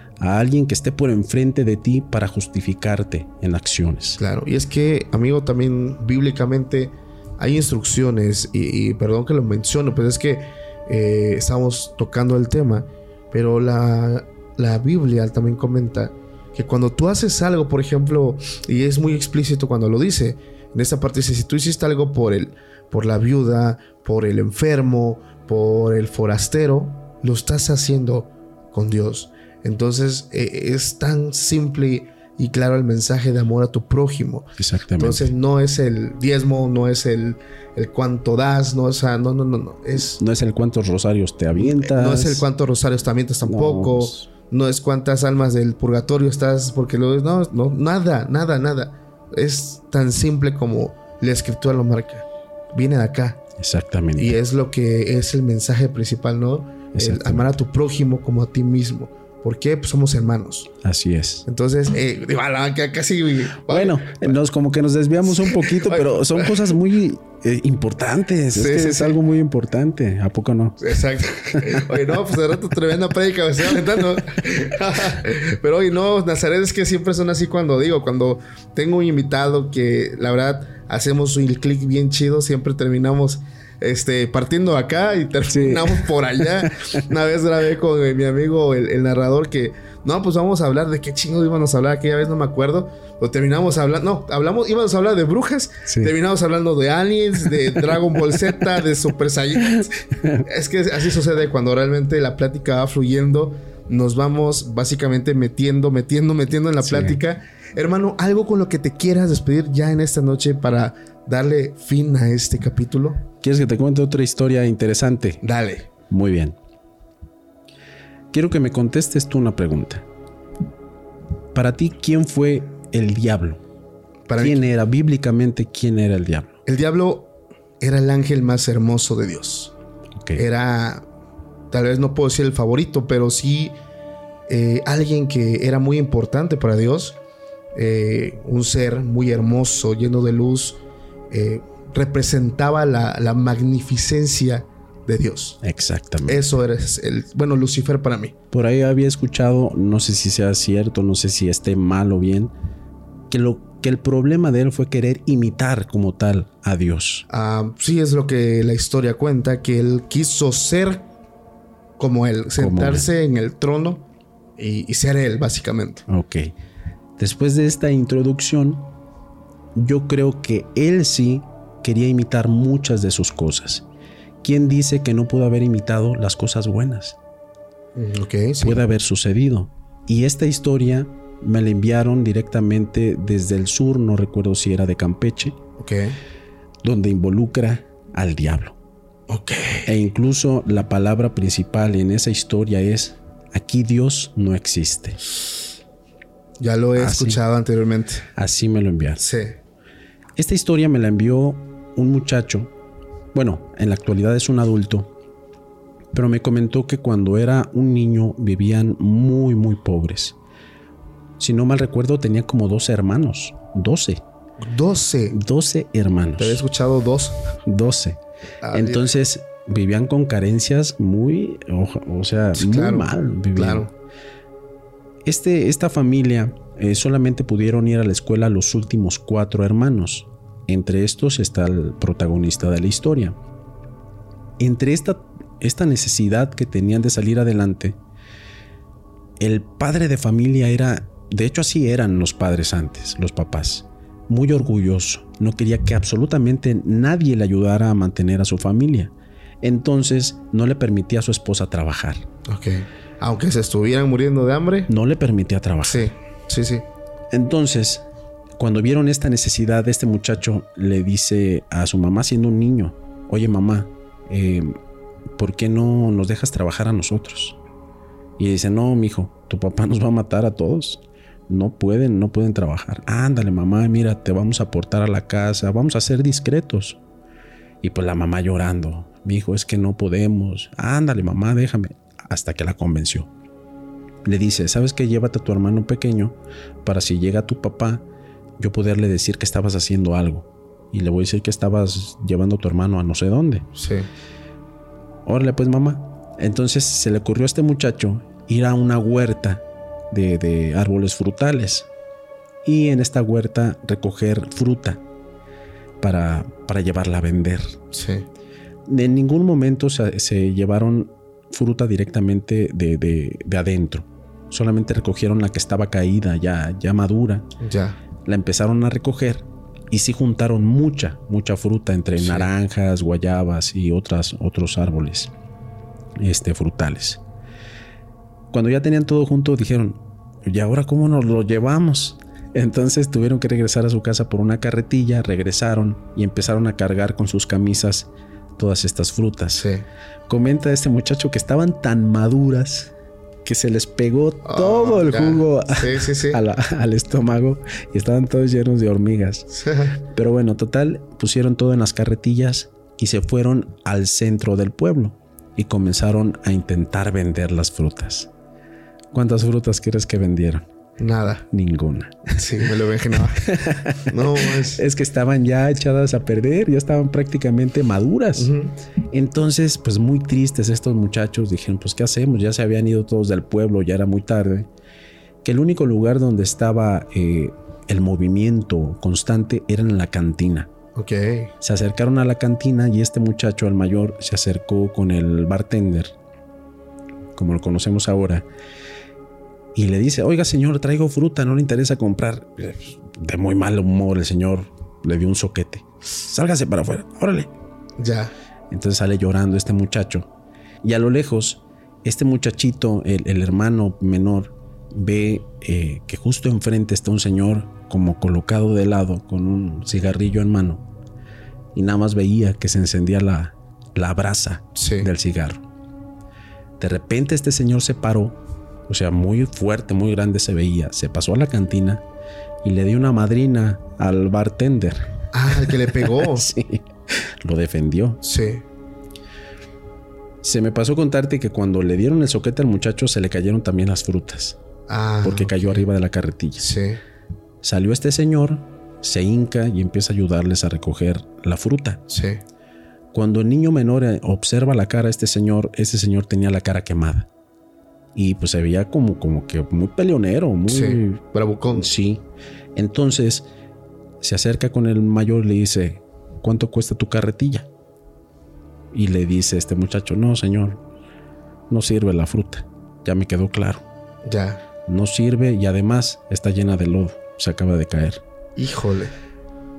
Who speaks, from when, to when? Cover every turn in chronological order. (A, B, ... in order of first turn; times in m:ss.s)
0:00.2-0:04.2 A
0:04.2-0:40.2 B
0:34.6-0:35.3 A
0:40.2-0:42.5 A
0:41.6-0:53.4 B
0:43.4-0:44.3 A
0:53.6-0:54.4 A
0:54.2-1:00.7 B
0:56.9-0:57.5 A
1:00.8-1:01.4 A
1:01.5-1:04.4 B
1:03.7-1:11.9 A
1:05.3-1:06.8 B
1:08.5-1:09.2 B
1:10.8-1:53.2 B
1:25.5-1:27.0 A
1:35.9-1:36.1 A
1:39.7-1:40.5 A
1:46.8-1:47.2 A
1:53.4-1:55.4 A
1:55.4-1:55.9 B
1:56.1-1:56.6 A
1:58.3-2:00.1 A
2:01.5-2:03.6 A
2:04.3-2:04.6 B
2:04.4-2:06.5 A
2:06.7-2:09.7 B
2:10.4-2:11.1 B
2:11.7-2:13.8 B
2:14.5-2:17.2 B
2:17.8-2:25.6 B
2:25.6-2:26.4 A
2:26.3-2:28.4 B
2:28.5-2:32.5 A
2:33.3-2:37.3 A
2:37.3-2:41.1 B
2:42.0-2:44.1 B
2:42.6-2:43.1 A
2:44.6-2:46.0 B
2:46.1-2:46.5 A
2:47.2-2:48.9 A
2:49.8-2:53.9 A
2:54.4-2:57.2 A
2:58.0-2:58.8 B
2:58.6-3:05.6 A
3:05.8-3:06.2 B
3:06.8-3:08.8 A
3:09.3-3:09.9 B
3:09.9-3:15.2 A
3:16.6-3:18.3 B
3:17.0-3:17.4 A
3:18.4-3:19.2 A
3:19.2-3:19.6 B
3:20.4-3:22.7 A
3:23.3-3:25.1 A
3:26.1-3:30.4 A
3:31.4-3:34.2 A
3:34.6-3:35.4 B
3:35.3-3:36.6 A
3:36.4-3:37.5 B
3:37.6-3:38.2 A
3:38.6-3:39.1 B
3:38.7-3:43.9 A
3:42.6-3:43.9 B
3:45.3-3:53.4 A
3:54.6-3:58.0 A
3:59.4-4:12.3 A
4:12.5-4:14.9 B
4:14.9-4:16.1 A
4:15.9-4:16.9 B
4:17.3-4:18.0 A
4:18.6-4:24.8 A
4:25.4-4:27.6 A
4:28.4-4:37.0 A
4:37.8-4:43.3 A
4:44.2-4:48.0 A
4:48.6-4:53.7 A
4:53.8-4:54.1 B
4:55.3-5:01.9 A
5:02.6-5:05.0 A
5:06.0-5:07.8 A
5:07.9-5:08.3 B
5:08.9-5:17.5 A
5:17.6-5:18.0 B
5:18.2-5:25.3 A
5:22.2-5:22.5 B
5:26.2-5:27.2 A
5:28.5-5:39.7 A
5:39.6-5:39.9 B
5:40.3-5:42.9 A
5:43.4-5:49.5 A
5:44.4-5:46.4 B
5:49.5-5:50.0 B
5:50.0-5:58.3 A
5:59.1-6:00.7 A
6:01.0-6:01.5 B
6:01.5-6:02.7 A
6:02.4-6:04.8 B
6:03.4-6:08.5 A
6:08.4-6:08.8 B
6:09.1-6:14.7 A
6:15.4-6:20.7 A
6:21.0-6:21.5 B
6:21.6-6:26.2 A
6:27.4-6:28.5 A
6:29.8-6:37.5 A
6:38.0-6:38.3 B
6:38.7-6:40.3 A
6:40.8-6:50.8 A
6:51.8-6:55.6 A
6:54.8-6:55.1 B
6:56.8-7:02.0 A
7:02.6-7:08.2 A
7:05.3-7:06.5 B
7:08.2-7:08.6 B
7:10.4-7:14.6 A
7:14.9-7:15.8 B
7:15.2-7:16.7 A
7:16.6-7:17.0 B
7:17.6-7:22.0 A
7:22.1-7:22.4 B
7:23.1-7:27.3 A
7:28.2-7:32.2 A
7:30.7-7:31.9 B
7:32.8-7:33.5 A
7:34.2-7:37.7 A
7:38.9-7:40.8 A
7:41.7-7:43.8 A
7:44.2-7:44.6 B
7:44.9-7:48.2 A
7:48.6-7:49.1 B